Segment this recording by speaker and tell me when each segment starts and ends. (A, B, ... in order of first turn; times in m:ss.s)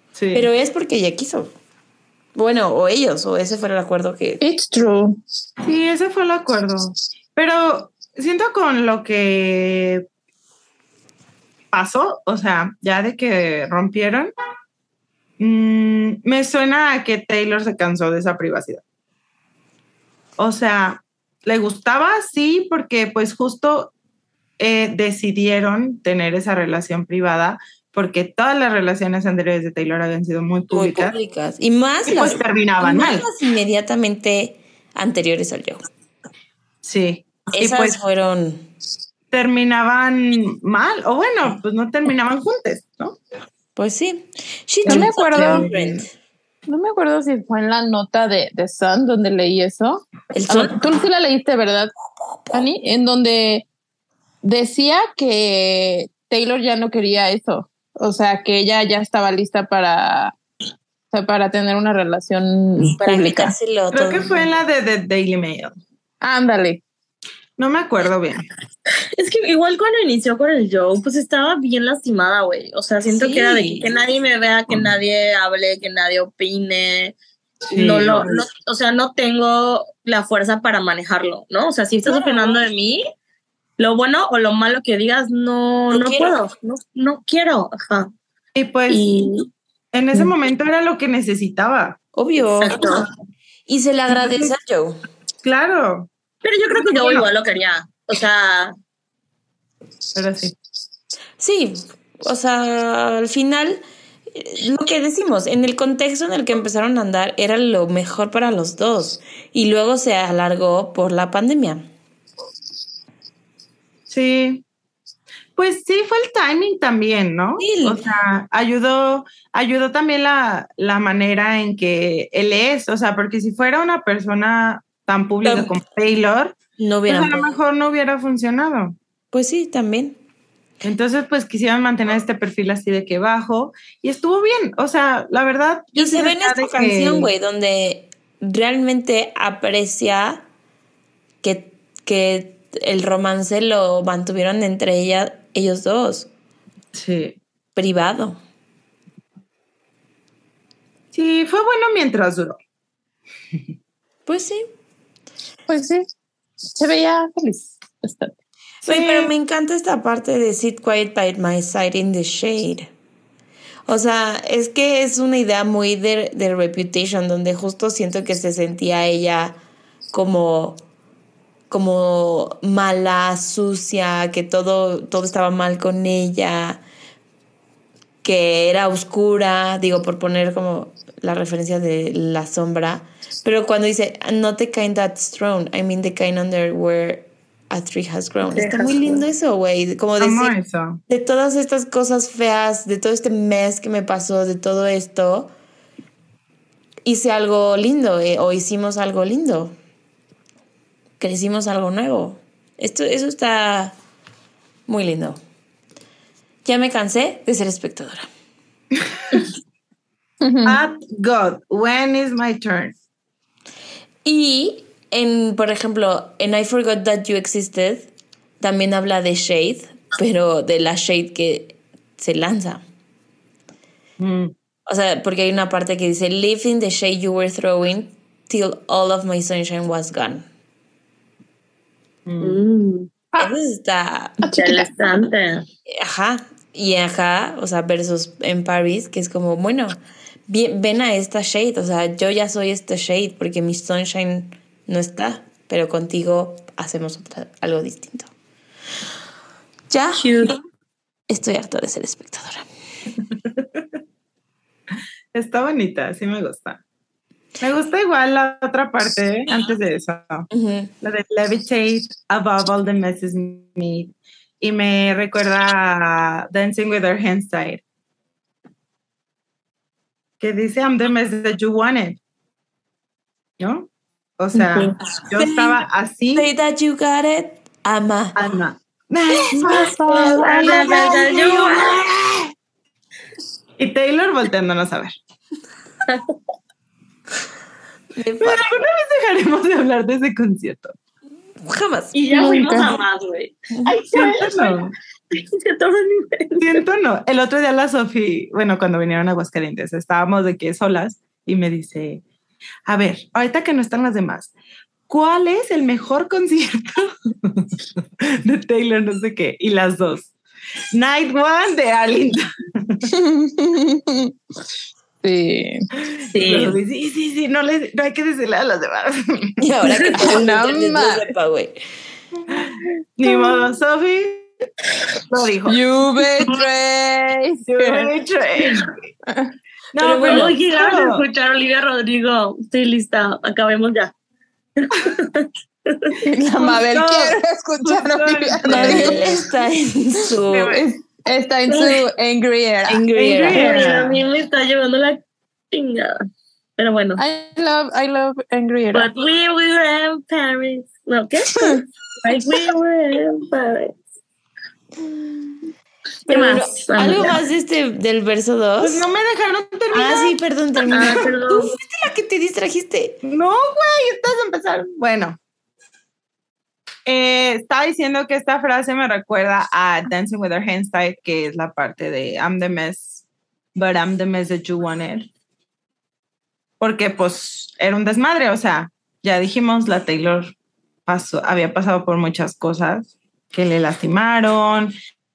0:00.1-0:00.5 A
0:00.3-0:01.5 B
0:02.3-0:04.4 B
0:04.4-0:05.2 C
0:05.6-0:10.0 A
0:11.7-0:14.3 A
0:15.4-0:18.8 A
0:20.4-0:23.9 A
0:24.6-0:31.1 A
0:30.7-0:35.8 B
0:32.1-0:33.2 A
0:36.8-0:38.0 A
0:37.5-0:38.6 B
0:39.3-0:43.2 A
0:43.8-0:46.1 B
0:44.8-0:45.6 C
0:44.8-0:46.0 A
0:46.7-0:51.9 C
0:50.3-0:50.8 B
0:52.5-0:53.7 C
0:54.4-1:00.4 C
1:01.1-1:03.5 C
1:03.0-1:04.4 B
1:03.9-1:05.7 A
1:06.2-1:06.8 C
1:07.6-1:08.4 A
1:09.1-1:17.2 D
1:13.0-1:13.9 B
1:17.7-1:18.4 A
1:17.7-1:23.0 D
1:22.0-1:22.6 A
1:23.8-1:28.1 D
1:25.9-1:26.4 B
1:28.5-1:29.0 A
1:28.9-1:29.5 D
1:29.9-1:32.0 A
1:32.1-1:32.8 B
1:32.6-1:33.1 D
1:33.7-1:35.0 B
1:34.2-1:34.5 A
1:35.4-1:36.1 A
1:36.4-1:38.7 D
1:36.7-1:37.3 A
1:40.1-1:40.6 A
1:41.4-1:43.8 B
1:44.3-1:51.8 B
1:54.1-1:54.6 A
1:55.6-2:06.6 A
1:57.6-1:58.0 B
2:05.4-2:05.7 B
2:06.8-2:07.6 B
2:07.1-2:09.0 A
2:09.3-2:10.2 B
2:10.8-2:17.3 A
2:16.0-2:20.4 B
2:21.4-2:26.3 B
2:26.9-2:27.4 A
2:27.7-2:28.4 B
2:31.1-2:32.6 A
2:34.2-2:34.7 B
2:35.7-2:36.1 C
2:36.7-2:38.3 C
2:38.8-2:42.9 B
2:38.8-2:39.3 A
2:43.9-2:49.6 B
2:50.1-2:50.8 B
2:51.7-2:56.8 B
2:58.2-3:10.5 B
3:08.4-3:09.2 D
3:10.2-3:11.0 A
3:11.1-3:15.5 B
3:17.0-3:19.7 B
3:21.2-3:23.9 B
3:24.9-3:25.4 B
3:26.6-3:28.3 B
3:30.4-3:30.8 C
3:30.6-3:33.0 A
3:34.2-3:42.8 B
3:44.2-3:44.5 A
3:44.8-3:50.4 B
3:52.2-3:52.6 A
3:52.4-3:53.1 D
3:53.4-3:54.4 B
3:54.4-3:54.9 C
3:54.5-3:55.6 D
3:55.9-4:00.0 B
4:00.5-4:08.3 B
4:09.9-4:10.5 B
4:10.2-4:10.6 D
4:11.3-4:12.6 B
4:13.3-4:13.8 A
4:15.3-4:16.8 A
4:17.6-4:20.5 A
4:20.5-4:20.9 B
4:21.0-4:27.8 A
4:30.4-4:32.2 A
4:33.6-4:36.5 A
4:34.5-4:34.9 D
4:35.3-4:35.8 B
4:36.3-4:38.4 B
4:38.4-4:42.5 A
4:39.5-4:41.2 C
4:40.0-4:42.0 D
4:43.8-4:45.1 A
4:46.0-4:46.3 D
4:48.2-4:48.8 B
4:48.4-4:50.9 A
4:51.6-4:52.2 B
4:52.1-4:56.8 D
4:52.3-4:53.0 C
4:54.1-4:54.9 A
4:56.6-5:02.2 A
5:02.9-5:04.5 A
5:05.1-5:10.3 A
5:10.9-5:13.1 A
5:13.1-5:14.3 C
5:15.2-5:15.9 C
5:16.1-5:19.6 A
5:16.3-5:16.8 D
5:19.6-5:21.8 B
5:20.1-5:21.3 C
5:22.5-5:24.5 A
5:23.2-5:23.6 C
5:25.1-5:25.8 A
5:25.7-5:28.1 C
5:27.6-5:29.1 A
5:29.9-5:31.2 A
5:30.0-5:30.6 B
5:30.2-5:34.1 D
5:34.8-5:36.2 D
5:36.2-5:39.3 C
5:36.6-5:39.3 A
5:38.6-5:40.8 B
5:40.4-5:43.0 C
5:41.7-5:42.0 D
5:42.9-5:43.8 B
5:43.2-5:44.2 A
5:43.5-5:46.1 D
5:46.8-5:47.2 D
5:47.2-5:49.1 C
5:48.9-5:53.9 D
5:51.5-5:51.8 C
5:56.3-5:59.0 B
5:56.3-5:57.4 D
5:58.8-6:01.3 A
5:59.9-6:03.2 B
6:00.9-6:01.8 D
6:03.2-6:05.4 A
6:07.0-6:13.2 A
6:13.7-6:15.3 A
6:16.8-6:20.5 A
6:21.0-6:24.9 A